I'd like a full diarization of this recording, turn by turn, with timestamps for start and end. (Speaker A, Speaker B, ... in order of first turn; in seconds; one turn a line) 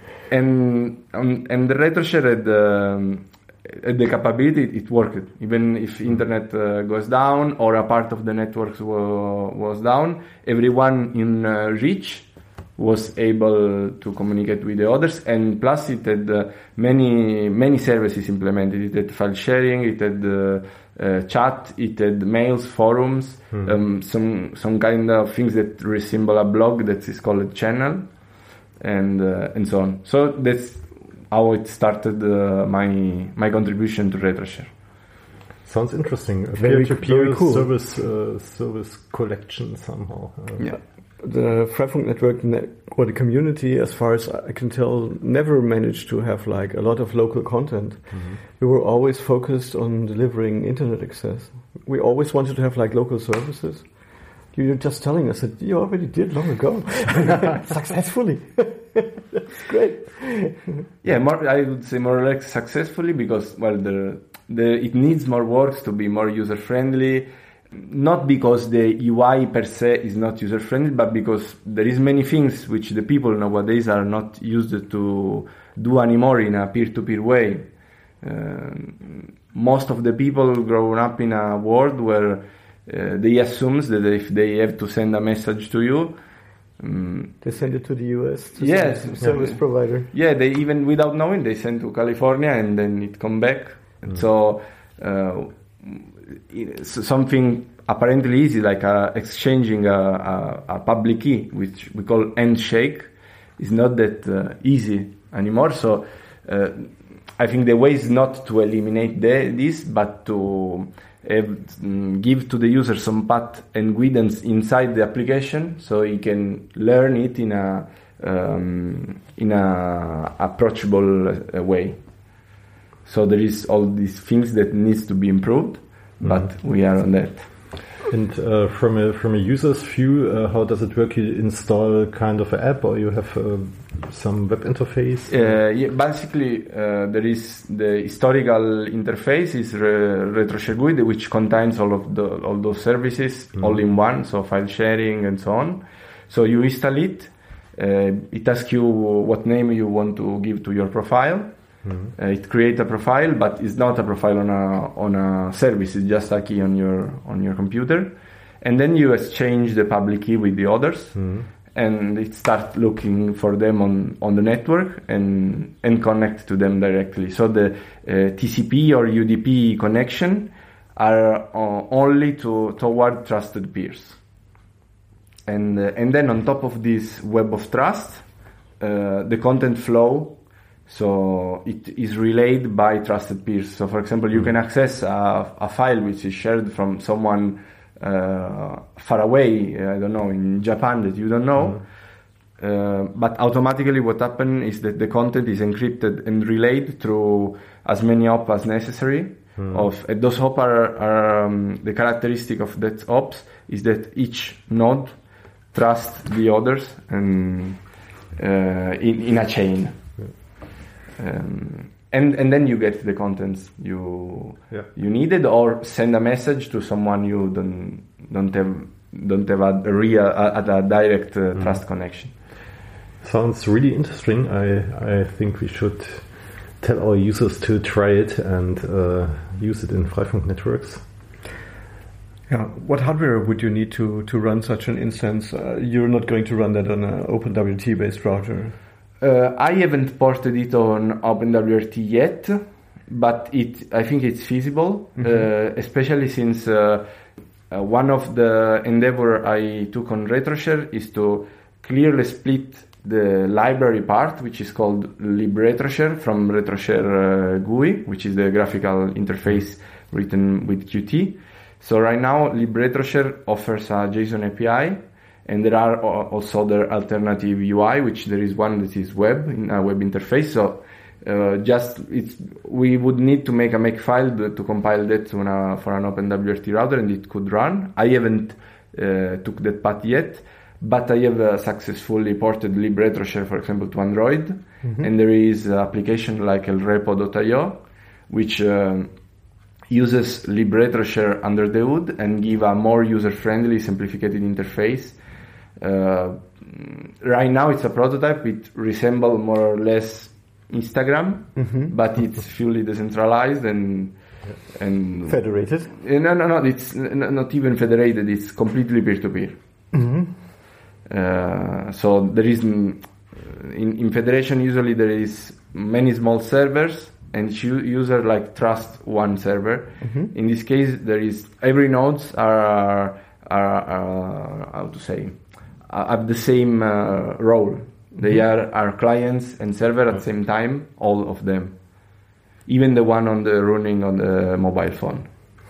Speaker A: 0.3-28.1
Speaker A: 28.8-34.8
Speaker B: 35.6-40.7
Speaker C: 36.5-37.7
Speaker C: 40.6-60.8
Speaker B: 48.1-48.4
Speaker A: 61.0-77.7
Speaker A: 78.2-86.2
Speaker A: 86.8-87.4
Speaker C: 87.4-90.1
Speaker A: 88.6-122.0
Speaker A: 123.0-127.7
Speaker B: 126.2-126.5
Speaker B: 128.1-135.6
Speaker A: 135.3-151.5
Speaker B: 151.8-152.1
Speaker A: 152.1-174.2
Speaker B: 161.2-161.5
Speaker A: 175.5-178.3
Speaker A: 178.8-180.4
Speaker A: 180.9-191.9
Speaker A: 192.6-205.2
Speaker B: 199.6-199.9
Speaker A: 205.7-210.2
Speaker A: 211.2-222.3
Speaker B: 223.2-231.0
Speaker C: 232.5-238.8
Speaker A: 239.2-247.1
Speaker C: 245.2-245.5
Speaker A: 247.7-289.1
Speaker A: 289.9-295.2
Speaker A: 295.8-309.6
Speaker C: 301.6-301.9
Speaker C: 305.3-305.9
Speaker C: 309.9-310.4
Speaker A: 311.1-335.3
Speaker C: 320.0-320.3